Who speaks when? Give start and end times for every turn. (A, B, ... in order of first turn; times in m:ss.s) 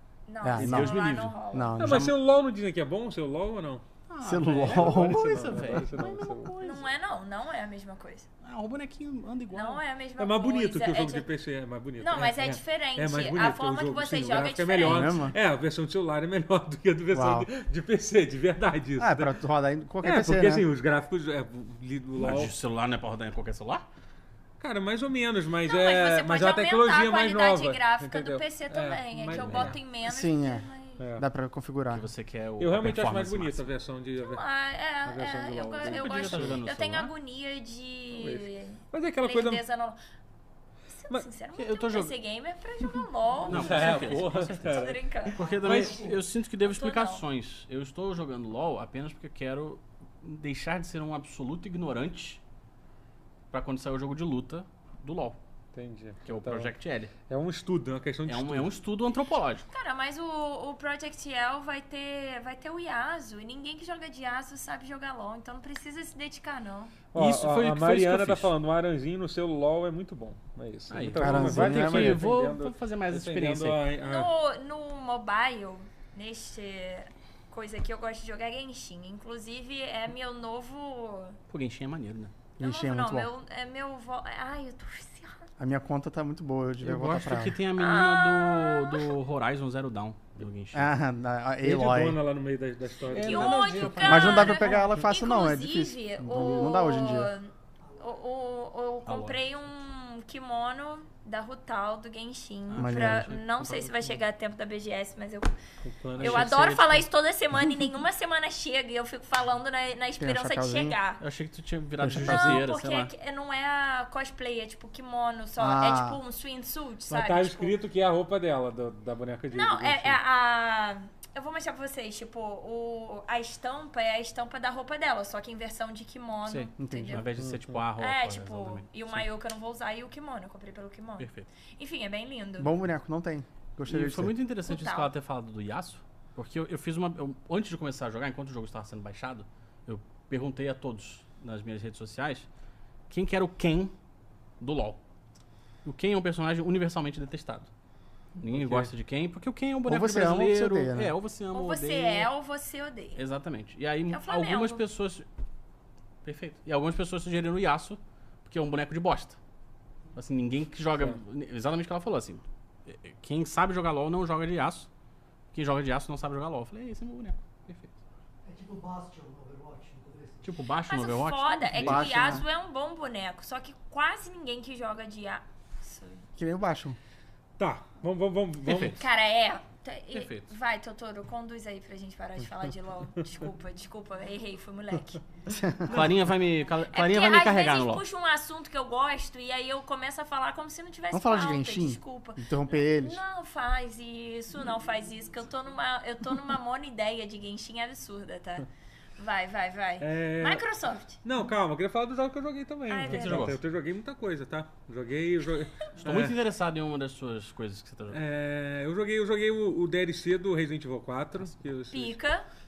0:00.3-0:01.8 A
0:00.4-0:01.0 B
0:00.6-0:02.1 C
0:01.5-0:02.1 B
0:01.8-0:03.8 D
0:04.1-0:06.9 C
0:04.2-0:06.0 B
0:04.6-0:06.6 D
0:06.6-0:08.3 A
0:08.4-0:09.8 C
0:09.5-0:11.3 A
0:10.2-0:19.4 D
0:12.0-0:15.1 A
0:14.8-0:15.4 B
0:17.1-0:17.5 B
0:19.0-0:20.6 B
0:20.0-0:22.5 D
0:22.2-0:23.8 C
0:24.6-0:29.8 D
0:25.6-0:31.0 A
0:29.3-0:29.7 C
0:30.0-0:32.1 B
0:31.0-0:31.2 D
0:31.9-0:33.7 C
0:32.6-0:34.4 D
0:34.2-0:40.0 A
0:35.0-0:36.6 D
0:35.8-0:37.1 C
0:38.1-0:39.6 D
0:40.9-0:45.4 A
0:41.5-0:42.1 C
0:43.5-0:44.5 C
0:43.5-0:46.0 D
0:45.3-0:52.4 C
0:45.3-0:46.2 E
0:46.6-0:47.2 A
0:53.5-0:55.4 C
0:55.7-0:56.7 D
0:56.2-0:57.1 C
0:57.3-0:58.7 D
0:58.2-0:59.7 C
0:59.7-1:06.9 A
1:07.1-1:14.3 D
1:07.1-1:08.5 C
1:10.9-1:13.8 C
1:11.1-1:12.3 B
1:14.0-1:21.4 A
1:21.5-1:22.3 C
1:22.6-1:23.3 B
1:22.6-1:25.5 A
1:25.6-1:27.6 B
1:26.8-1:30.9 C
1:27.8-1:29.2 A
1:30.7-1:32.2 B
1:31.6-1:34.4 D
1:33.1-1:34.9 C
1:33.1-1:45.5 A
1:34.0-1:37.3 B
1:37.8-1:38.1 E
1:39.0-1:39.4 C
1:42.7-1:44.2 C
1:42.8-1:43.3 B
1:45.8-1:46.6 D
1:46.2-1:47.0 C
1:46.2-1:51.2 A
1:50.2-1:51.0 B
1:51.2-1:53.1 C
1:52.0-1:52.6 B
1:52.1-1:57.7 A
1:55.6-1:56.2 B
1:57.1-2:00.2 D
1:59.5-2:07.3 A
2:06.5-2:09.2 C
2:06.8-2:07.3 B
2:07.4-2:07.8 D
2:08.0-2:12.7 A
2:11.2-2:11.5 C
2:12.6-2:14.3 B
2:13.9-2:22.5 C
2:14.6-2:15.1 A
2:23.1-2:23.9 C
2:24.6-2:25.0 C
2:25.8-2:27.7 C
2:28.4-2:32.3 C
2:28.6-2:28.9 D
2:29.9-2:31.1 B
2:31.5-2:33.2 A
2:33.2-2:35.2 C
2:34.1-2:34.8 A
2:36.2-2:39.4 C
2:40.2-2:44.9 C
2:45.5-2:48.0 C
2:48.4-2:50.5 E
2:50.4-2:52.4 C
2:50.8-2:56.2 A
2:51.8-2:52.4 B
2:56.4-2:57.0 B
2:57.6-2:59.0 D
2:58.6-2:59.0 C
2:58.8-3:05.2 A
3:00.1-3:00.5 C
3:05.5-3:06.0 B
3:05.9-3:06.2 D
3:05.9-3:08.0 C
3:06.9-3:21.2 A
3:11.1-3:13.2 B
3:20.0-3:20.6 D
3:21.2-3:26.4 D
3:22.9-3:23.5 A
3:23.0-3:23.6 C
3:26.0-3:28.2 C
3:28.1-3:32.2 D
3:31.9-3:32.4 A